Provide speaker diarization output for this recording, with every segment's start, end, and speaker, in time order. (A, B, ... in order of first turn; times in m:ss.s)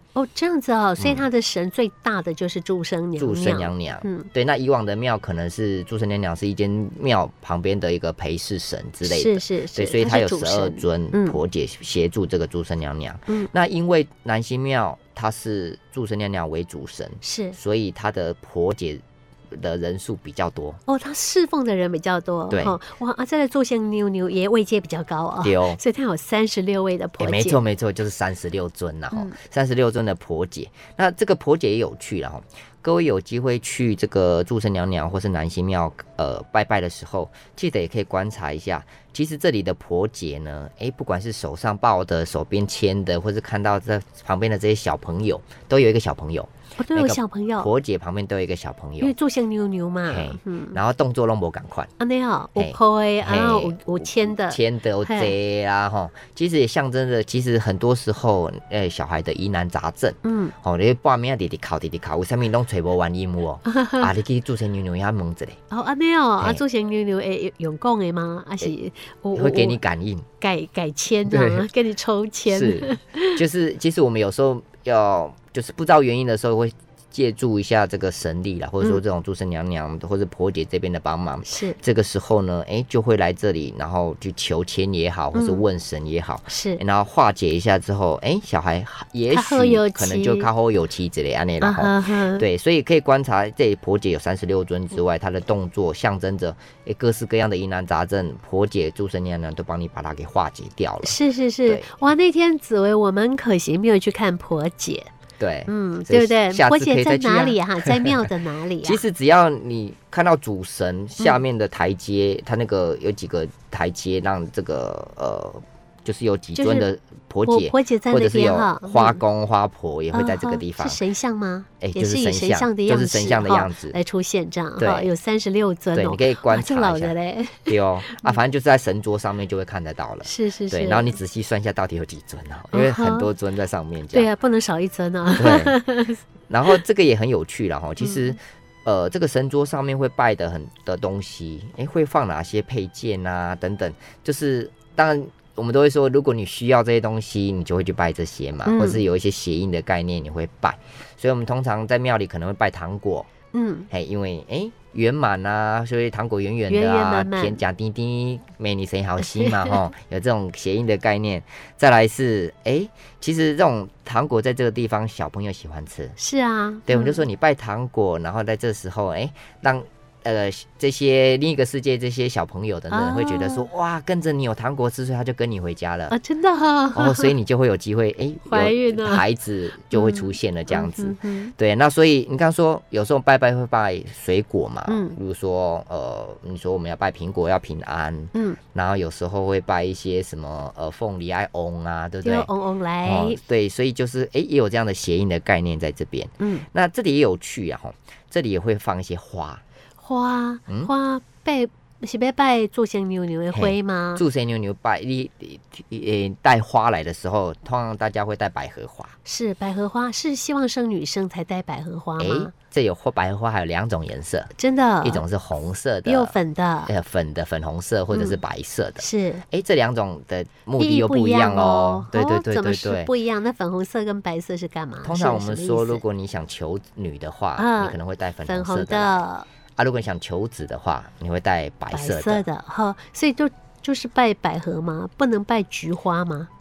0:00.1-0:04.3 A
0:01.0-0:01.2 B
0:03.2-0:20.8 B
0:09.0-0:11.4 A
0:17.2-0:17.6 A
0:20.8-0:27.6 A
0:22.5-0:22.8 B
0:25.4-0:25.8 B
0:27.2-0:49.1 B
0:46.8-0:47.7 A
0:49.0-0:50.8 A
0:50.1-0:51.9 B
0:52.0-0:55.3 A
0:52.6-1:05.6 B
1:00.2-1:00.5 A
1:03.7-1:04.1 A
1:05.7-1:09.8 A
1:09.3-1:10.3 B
1:10.4-1:13.4 A
1:11.3-1:11.6 B
1:12.4-1:42.0 B
1:21.4-1:21.8 A
1:25.3-1:25.6 A
1:26.5-1:26.8 A
1:29.3-1:30.5 A
1:31.6-1:32.4 A
1:41.0-1:45.1 A
1:45.4-1:48.3 B
1:45.7-1:49.0 A
1:48.8-2:01.0 B
1:56.5-1:56.9 A
1:57.4-1:59.2 A
2:00.1-2:08.4 A
2:01.8-2:04.0 B
2:04.8-2:05.1 B
2:05.9-2:14.3 B
2:10.2-2:11.2 A
2:12.7-2:13.3 A
2:14.1-2:16.2 A
2:15.3-2:15.8 B
2:16.5-2:33.3 B
2:18.0-2:18.3 A
2:28.6-2:29.0 A
2:33.5-2:33.9 A
2:33.9-2:46.2 B
2:36.7-2:37.6 A
2:39.2-2:39.8 A
2:46.2-2:47.2 A
2:46.9-2:56.2 B
2:52.9-2:53.7 A
2:56.1-2:57.3 A
2:56.9-3:12.5 B
2:58.4-2:59.2 A
2:59.9-3:01.5 A
3:04.9-3:05.2 A
3:08.3-3:08.6 A
3:12.2-3:13.4 A
3:13.0-3:19.6 B
3:16.4-3:16.6 A
3:20.0-3:24.2 A
3:23.5-3:29.1 B
3:29.2-3:32.5 A
3:32.2-3:34.5 B
3:34.6-3:35.2 A
3:35.0-3:36.3 B
3:36.0-3:36.9 A
3:36.9-3:43.1 B
3:38.1-3:38.4 A
3:39.0-3:39.4 A
3:40.8-3:46.0 A
3:45.0-3:49.2 B
3:47.6-3:49.5 A
3:49.8-3:52.4 B
3:51.9-3:56.5 A